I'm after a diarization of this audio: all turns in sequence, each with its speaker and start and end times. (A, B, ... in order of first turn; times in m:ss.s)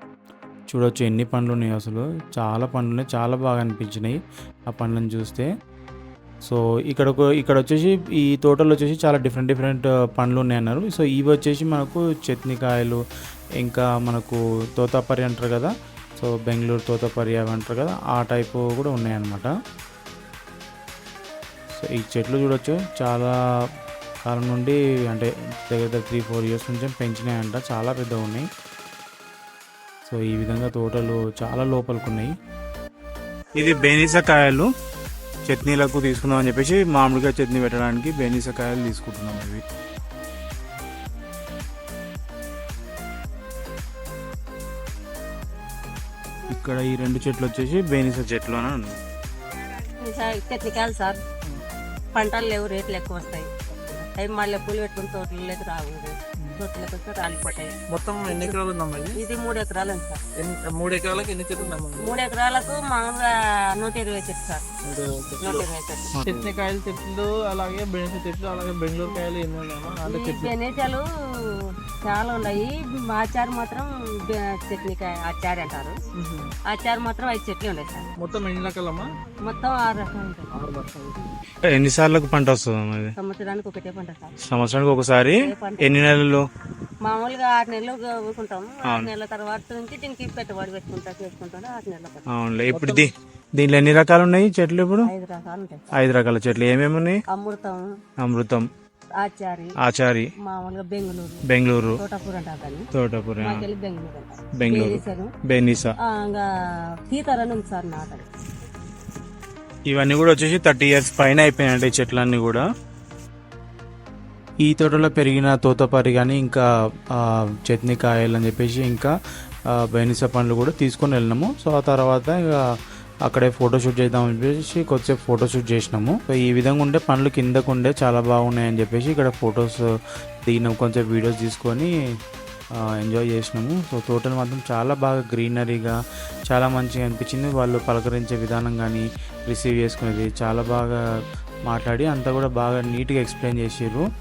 0:00.7-0:05.5 A
0:06.4-0:13.0 A
0:13.6-0:19.5 A
0:21.8-0:23.3 A
0:24.2-0:28.5 A
0:30.1-0:32.3 A
0:33.6-0:34.7 A
0:35.5-0:39.6 A
0:46.5-0:49.0 A
0:49.9-0:51.2 B
0:52.1-0:57.7 B
0:57.9-0:59.2 C
0:58.3-0:58.6 B
0:59.2-1:00.2 B
1:00.4-1:02.2 C
1:01.6-1:04.6 B
1:04.8-1:05.6 C
1:05.4-1:06.1 B
1:06.1-1:06.5 A
1:06.2-1:10.5 C
1:10.1-1:16.0 B
1:16.2-1:16.5 C
1:16.7-1:18.1 B
1:18.2-1:19.1 C
1:19.4-1:20.5 B
1:20.5-1:21.2 C
1:21.7-1:23.1 A
1:23.2-1:24.3 B
1:24.4-1:26.4 A
1:25.4-1:26.0 B
1:27.0-1:32.2 B
1:32.3-1:35.1 A
1:35.0-1:35.9 B
1:35.9-1:37.2 A
1:37.3-1:37.9 B
1:38.2-1:38.7 A
1:39.2-1:39.7 B
1:39.8-1:40.3 A
1:40.4-1:41.4 B
1:41.5-1:42.0 A
1:42.0-1:42.8 B
1:42.9-1:43.6 A
1:43.4-1:45.3 B
1:44.6-1:45.9 A
1:46.0-1:46.4 B
1:47.1-1:48.2 B
1:49.9-1:52.6 A
1:54.6-1:59.1 A
1:59.7-2:02.6 A
2:03.2-2:09.8 A
2:10.4-2:11.9 A
2:13.0-2:16.0 A
2:16.5-2:21.0 A
2:21.7-2:24.0 A